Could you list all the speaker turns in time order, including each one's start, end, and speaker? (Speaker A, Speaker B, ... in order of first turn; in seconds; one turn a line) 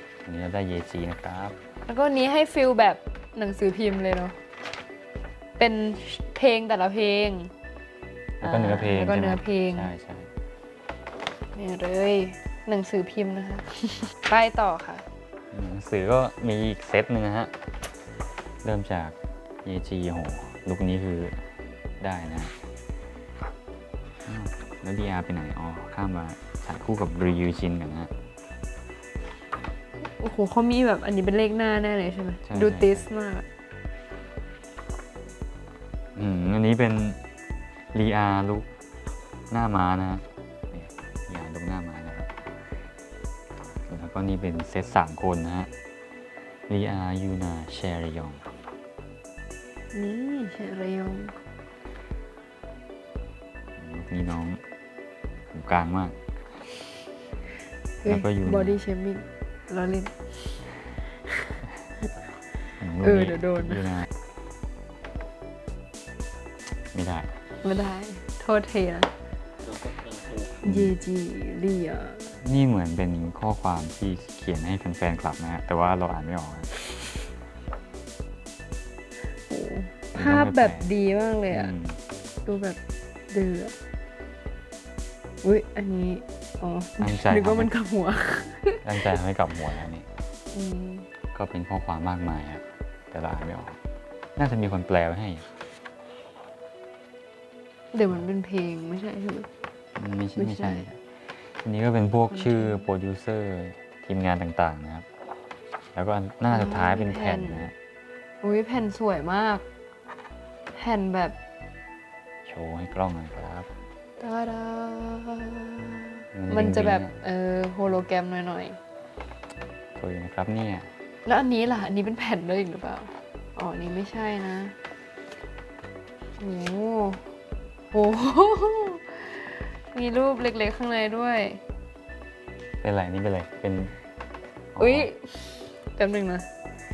Speaker A: 0.2-1.6
Speaker B: 1.9-4.3
Speaker B: 5.6-7.5
Speaker B: 8.4-9.9
Speaker A: 8.4-10.3
Speaker B: 11.5-15.0
Speaker A: 15.5-17.5
Speaker A: 18.6-21.4
Speaker A: 22.0-22.5
Speaker A: 24.2-28.1
Speaker B: 30.0-33.4
Speaker A: 32.4-33.1
Speaker A: 36.1-37.2
Speaker A: 37.9-38.7
Speaker A: 39.5-42.3
Speaker A: 43.9-45.7
Speaker A: 46.7-48.4
Speaker B: 49.9-51.3
Speaker A: 53.8-54.6
Speaker A: 55.5-56.1
Speaker B: 58.0-60.3
Speaker A: 58.1-58.8
Speaker A: 62.8-64.1
Speaker B: 63.0-63.9
Speaker A: 66.9-67.3
Speaker B: 67.6-69.1
Speaker B: 70.6-72.4
Speaker A: 70.6-70.9
Speaker A: 72.4-76.7
Speaker B: 79.5-81.7
Speaker A: 80.1-80.9
Speaker A: 81.5-82.0
Speaker B: 82.5-82.8
Speaker B: 83.3-83.7
Speaker B: 85.4-88.8
Speaker A: 87.0-87.7
Speaker A: 88.8-90.1
Speaker B: 90.5-91.0
Speaker A: 91.3-93.8
Speaker A: 94.4-95.5
Speaker B: 97.9-99.5
Speaker A: 100.0-101.0
Speaker B: 100.3-100.9
Speaker A: 101.6-105.0
Speaker B: 102.3-102.9
Speaker A: 105.9-107.7
Speaker B: 106.5-107.7
Speaker B: 108.4-109.6
Speaker B: 110.7-111.3
Speaker A: 112.5-113.7
Speaker B: 114.2-118.8
Speaker A: 116.3-117.1
Speaker A: 120.0-120.9
Speaker B: 121.2-124.7
Speaker B: 126.4-127.2
Speaker B: 127.9-131.6
Speaker A: 132.8-133.9
Speaker A: 134.8-135.1
Speaker B: 134.8-136.4